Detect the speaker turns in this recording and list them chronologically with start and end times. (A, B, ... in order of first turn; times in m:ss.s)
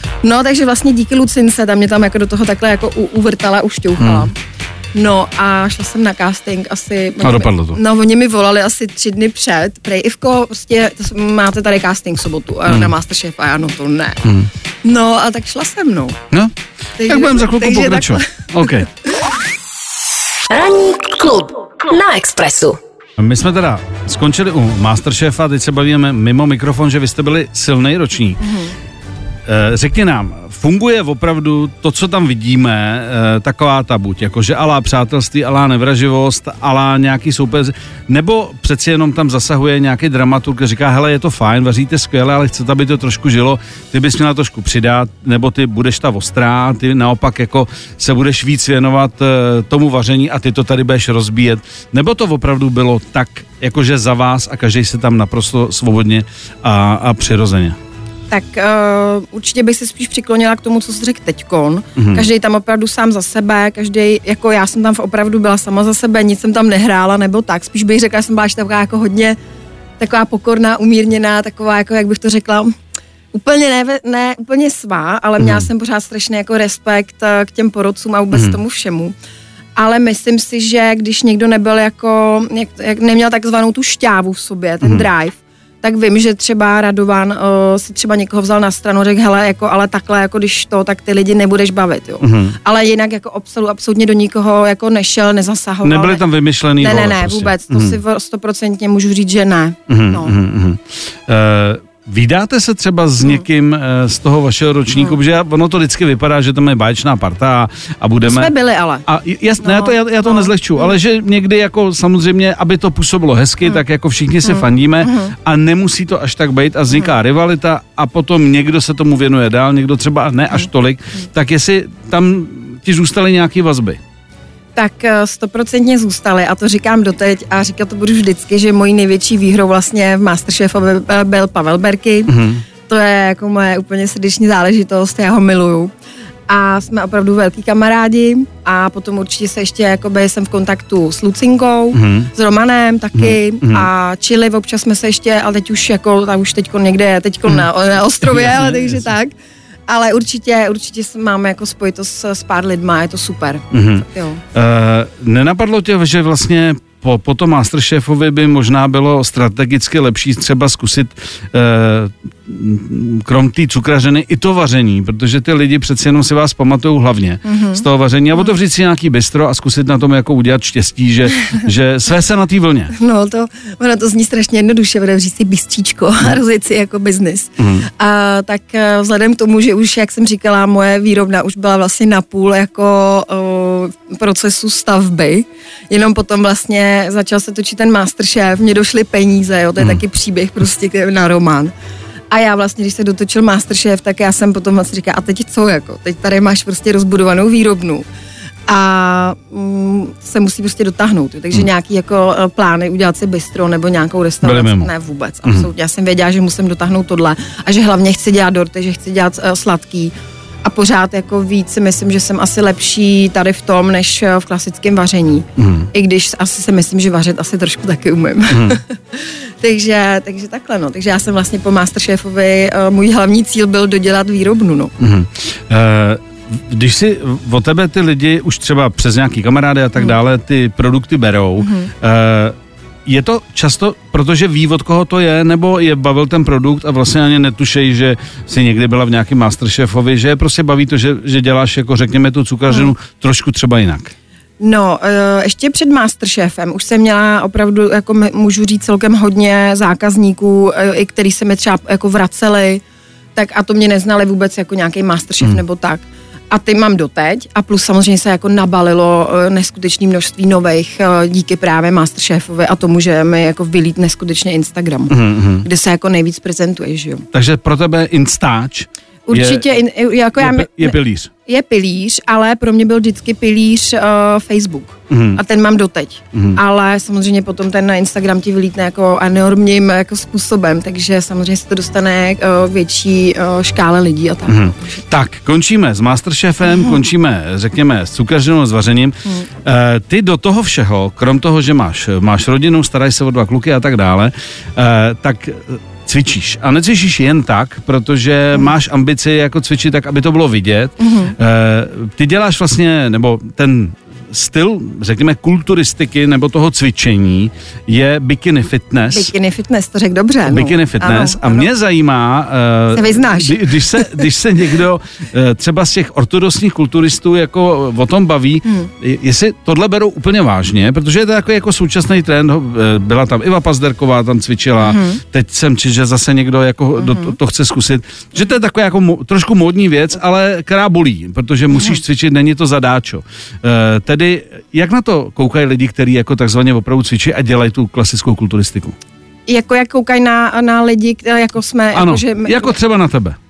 0:00.2-0:04.3 A
0:04.0-0:04.3 B
0:05.0-0:14.3 A
0:07.2-0:07.8 B
0:12.7-0:12.9 B
0:14.8-0:16.2 A
0:17.0-0:18.8 A
0:17.1-0:18.9 B
0:20.5-0:22.8 C
0:23.2-0:28.4 B
0:28.4-0:28.7 A
0:29.5-0:57.8 B
0:58.3-1:09.4 A
1:02.0-1:02.3 B
1:10.0-1:12.7 A
1:13.3-1:19.1 A
1:15.4-1:15.7 B
1:19.8-1:36.2 A
1:32.2-1:32.6 B
1:35.8-1:38.0 B
1:36.8-1:40.4 A
1:39.9-1:48.5 B
1:48.2-1:49.0 A
1:49.1-2:04.0 B
1:49.6-1:51.0 A
1:54.4-1:55.3 A
2:04.8-2:12.4 A
2:12.3-2:12.6 B
2:12.9-2:15.9 A
2:16.5-2:29.3 A
2:21.9-2:22.3 B
2:23.2-2:23.9 B
2:28.2-2:29.1 B
2:29.9-2:34.4 A
2:33.7-2:52.9 B
2:47.4-2:47.8 A
2:52.9-3:11.7 A
2:57.6-2:57.9 B
3:12.3-3:18.1 A
3:18.7-3:44.9 A
3:24.4-3:24.9 B
3:35.6-3:35.9 B
3:38.5-3:38.8 B
3:45.0-4:04.1 B
3:51.6-3:51.9 A
4:04.6-4:12.8 A
4:13.4-4:27.2 A
4:25.1-4:25.7 B
4:27.3-4:29.6 B
4:29.3-4:45.0 A
4:30.4-4:31.3 B
4:35.1-4:35.4 B
4:36.3-4:36.6 B
4:44.5-5:09.3 B
5:01.0-5:01.4 A
5:09.1-5:11.7 A
5:10.5-5:39.0 B
5:12.9-5:14.3 A
5:18.6-5:18.9 A
5:24.8-5:25.2 A
5:27.0-5:27.4 A
5:39.5-5:42.8 A
5:41.9-5:43.4 B